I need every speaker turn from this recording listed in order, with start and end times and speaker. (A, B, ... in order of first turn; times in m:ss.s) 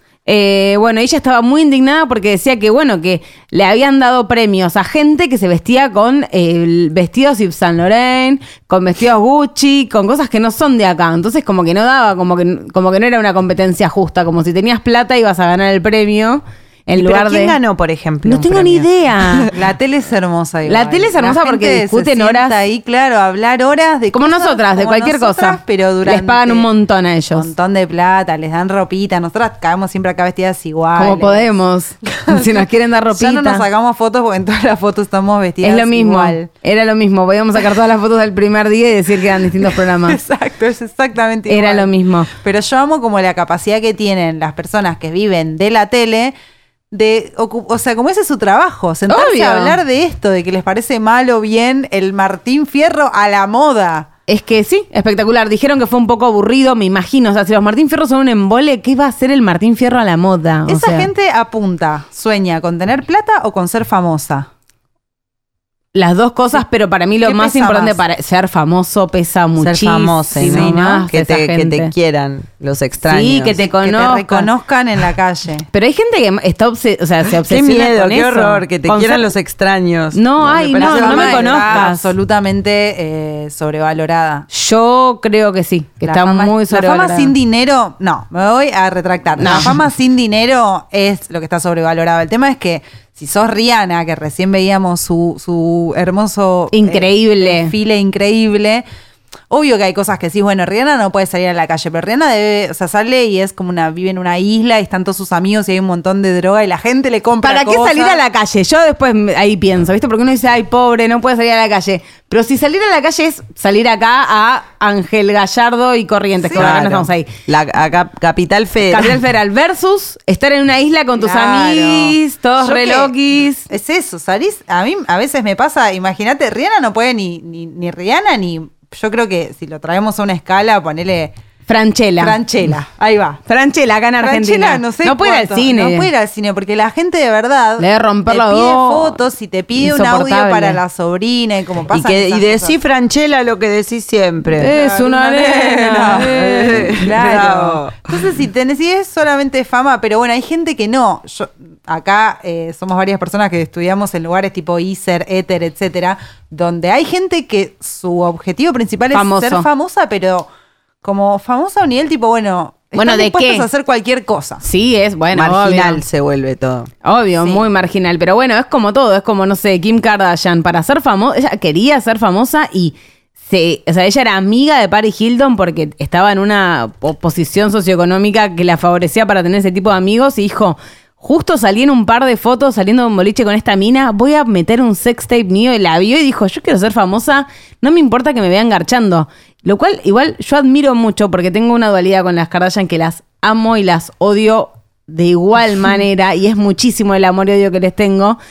0:00.2-0:17.6 A
0:17.0-0:19.5 B
0:18.2-0:19.5 A
0:19.5-0:26.7 C
0:20.6-0:22.5 A
0:24.1-0:27.5 A
0:27.3-0:31.5 C
0:31.0-0:33.6 A
0:32.0-0:36.5 C
0:35.6-0:40.2 A
0:39.6-0:46.3 C
0:41.5-0:42.3 A
0:46.9-0:54.1 C
0:49.1-0:49.8 A
0:54.3-1:01.1 A
1:00.7-1:04.5 C
1:05.9-1:11.9 A
1:07.2-1:08.0 C
1:09.6-1:13.6 B
1:10.4-1:11.0 C
1:13.0-1:14.5 A
1:13.8-1:15.7 C
1:15.7-1:19.3 A
1:17.4-1:21.8 B
1:20.1-1:22.1 A
1:20.7-1:24.5 C
1:24.5-1:27.3 A
1:26.0-1:38.8 C
1:29.4-1:29.8 A
1:36.7-1:37.7 A
1:39.5-1:48.2 C
1:47.4-1:57.3 A
1:56.4-1:56.7 C
1:56.5-1:59.2 B
1:58.9-2:03.7 A
2:01.2-2:03.1 C
2:03.7-2:11.3 C
2:11.7-2:12.4 A
2:12.2-2:13.4 C
2:13.5-2:16.1 A
2:14.2-2:22.8 C
2:17.8-2:19.2 A
2:19.8-2:20.8 A
2:21.9-2:24.7 B
2:24.6-2:27.0 A
2:24.6-2:40.5 C
2:26.2-2:28.1 B
2:39.1-2:39.7 A
2:41.0-2:44.6 C
2:43.0-2:43.7 A
2:44.6-2:46.0 A
2:45.3-2:46.9 B
2:47.0-3:18.4 A